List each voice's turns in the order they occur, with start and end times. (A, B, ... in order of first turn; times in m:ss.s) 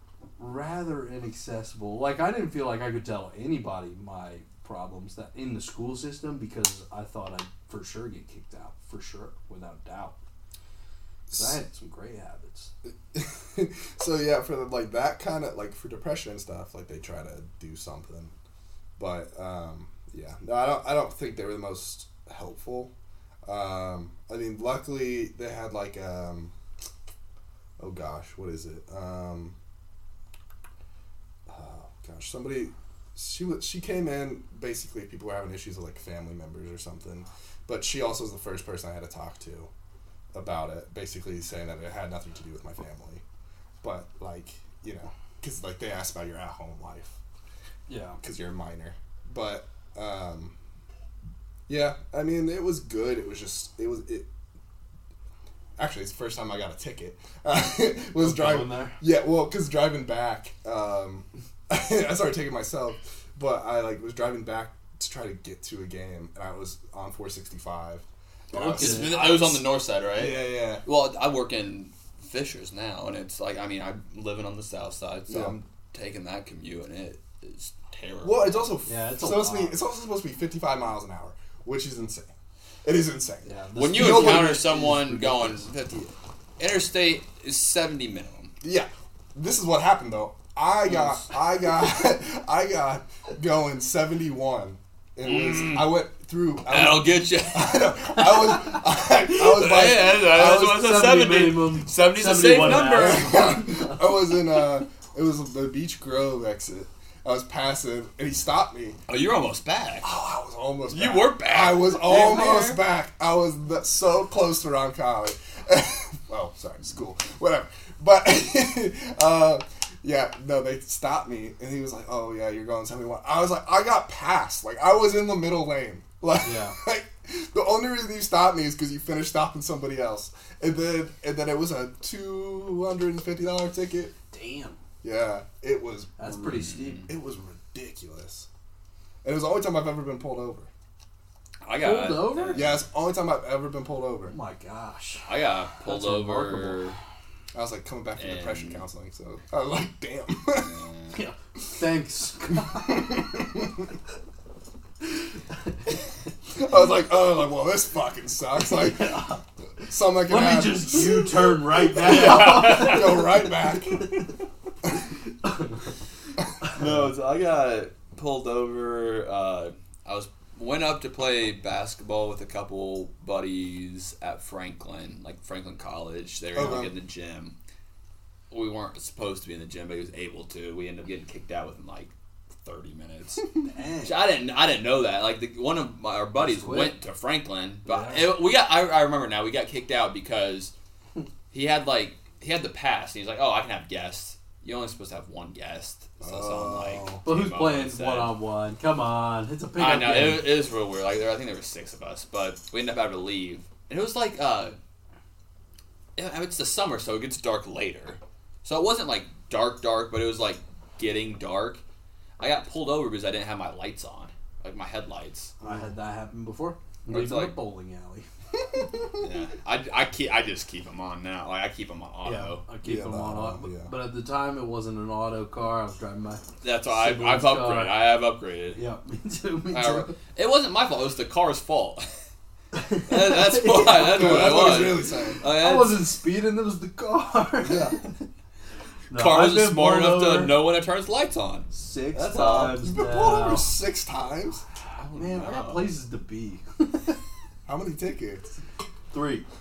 0:00.4-0:10.2 A
0:11.3-0:11.6 B
0:11.3-0:12.7 A
0:13.1-0:18.3 B
0:19.0-0:22.9 B
0:23.4-0:26.5 B
0:27.8-0:29.5 B
0:31.5-0:39.7 B
0:40.3-0:43.2 B
0:43.8-0:47.2 B
0:47.9-0:48.2 A
0:48.2-0:50.5 B
0:51.7-0:54.3 B
0:55.8-1:10.8 B
0:58.2-0:59.0 A
1:08.5-1:09.2 A
1:08.5-1:18.7 C
1:15.3-1:15.6 B
1:18.2-1:22.3 B
1:18.8-1:19.8 A
1:22.8-1:24.7 B
1:23.4-1:25.7 A
1:23.8-1:28.5 C
1:28.6-1:40.8 B
1:30.8-1:31.3 C
1:35.2-1:36.0 C
1:36.7-1:38.3 C
1:39.3-1:43.5 C
1:40.5-1:44.1 A
1:42.6-1:49.0 B
1:49.1-1:50.1 C
1:50.0-2:14.1 B
1:50.9-1:52.8 C
2:06.4-2:06.8 A
2:14.3-2:14.8 A
2:15.0-2:16.3 B
2:16.2-2:17.1 A
2:17.1-2:18.5 B
2:19.2-2:20.7 B
2:21.6-2:22.7 C
2:21.8-2:22.7 A
2:22.5-2:24.3 B
2:24.3-2:25.3 A
2:25.2-2:27.0 C
2:25.8-2:26.9 A
2:27.5-2:30.8 B
2:28.2-2:28.8 C
2:30.6-2:31.2 C
2:31.1-2:33.2 A
2:32.8-2:33.7 B
2:36.5-2:39.2 B
2:38.7-2:39.4 A
2:39.8-2:44.1 B
2:40.2-2:43.3 A
2:42.0-2:43.2 C
2:45.4-2:45.7 A
2:46.7-2:57.5 C
2:56.5-2:56.9 B
2:58.5-3:02.1 C
3:02.6-3:03.4 C
3:03.6-3:04.2 A
3:04.0-3:10.7 C
3:06.4-3:06.9 A
3:07.8-3:08.3 A
3:11.5-3:18.3 C
3:16.2-3:17.2 B
3:17.2-3:20.5 A
3:19.8-3:24.8 C
3:26.2-3:31.8 C
3:32.4-3:35.5 C
3:35.6-3:38.2 A
3:37.1-3:37.5 C
3:38.6-3:39.0 B
3:39.2-3:42.6 C
3:42.2-3:48.0 A
3:42.8-3:43.9 B
3:46.6-3:48.8 C
3:48.7-3:50.1 A
3:49.7-3:52.1 C
3:52.7-3:54.9 A
3:53.1-3:56.1 C
3:54.0-3:55.4 B
3:55.4-3:58.1 A
3:57.6-3:58.0 B
3:59.1-4:00.6 A
3:59.1-4:01.7 C
4:01.7-4:03.7 A
4:02.1-4:04.6 B
4:02.3-4:02.8 C
4:04.9-4:05.9 C
4:05.1-4:07.2 A
4:07.6-4:08.5 B
4:09.1-4:09.4 A